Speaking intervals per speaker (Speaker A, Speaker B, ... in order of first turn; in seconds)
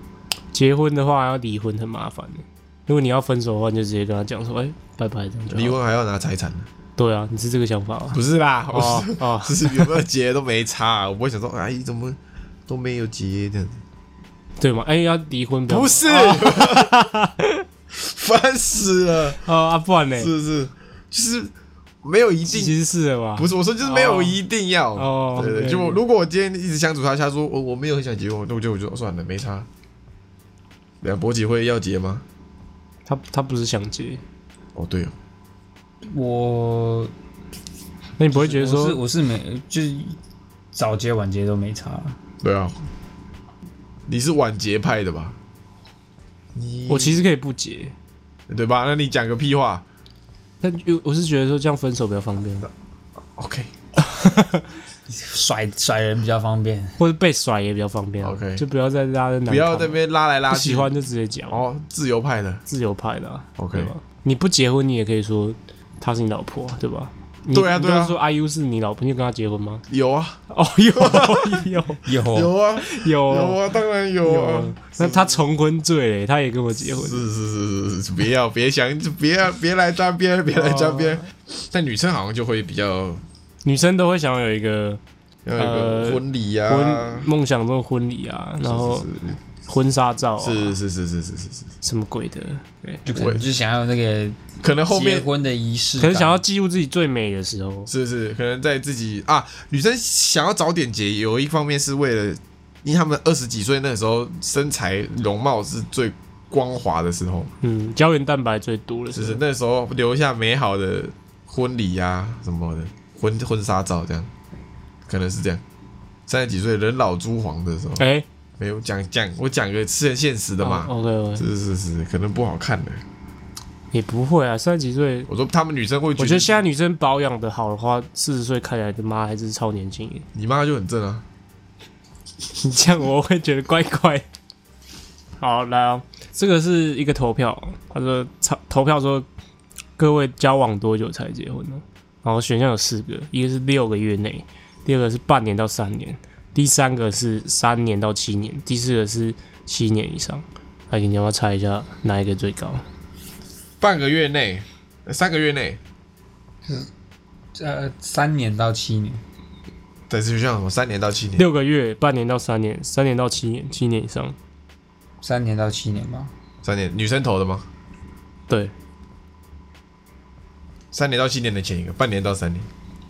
Speaker A: 0.5-5.8, 7.0-9.9, 14.6-17.6, 19.4-20.3, 22.5-24.4, 24.9-26.0, 33.1-34.2, 38.2-39.0, 46.9-47.9, 50.6-52.7, 54.0-54.6, 57.0-60.0, 60.5-61.6, 62.7-69.8, 70.5-72.0, 72.8-73.6, 74.2-77.2, 80.8-81.2, 83.6-85.0, 85.6-89.1, 89.7-90.8, 91.8-93.0, 96.0-97.9, 107.6-109.4, 118.0-118.3, 120.6-121.5, 123.9-125.3, 126.2-130.3, 132.6-134.3, 135.4-139.3, 140.0-152.8, 161.4-164.4
Speaker B: 5.5-6.7, 8.1-13.8, 15.7-17.1, 17.9-19.4, 20.2-22.8, 23.4-29.7, 31.0-32.2, 34.8-35.1, 42.4-42.8, 44.1-45.4, 46.5-47.2, 48.5-49.9, 53.4-53.8, 58.2-58.6, 59.5-60.9, 61.5-62.6, 63.6-63.9, 67.5-68.2, 69.9-70.4, 70.9-71.7, 72.3-75.4, 76.9-83.2, 85.5-87.3, 88.6-89.4, 90.4-91.7, 93.2-93.5, 94.6-95.3, 97.9-107.5, 109.1-114.3, 115.1-115.6, 116.3-118.0, 118.6-123.0, 125.3-126.6, 130.3-131.2, 153.8-155.8, 160.1-161.5, 166.6-167.7, 170.9-172.7
Speaker C: 36.0-37.1, 38.3-40.2, 40.7-42.2, 55.1-57.0, 72.0-72.5, 93.1-96.4, 157.6-159.2, 165.2-166.3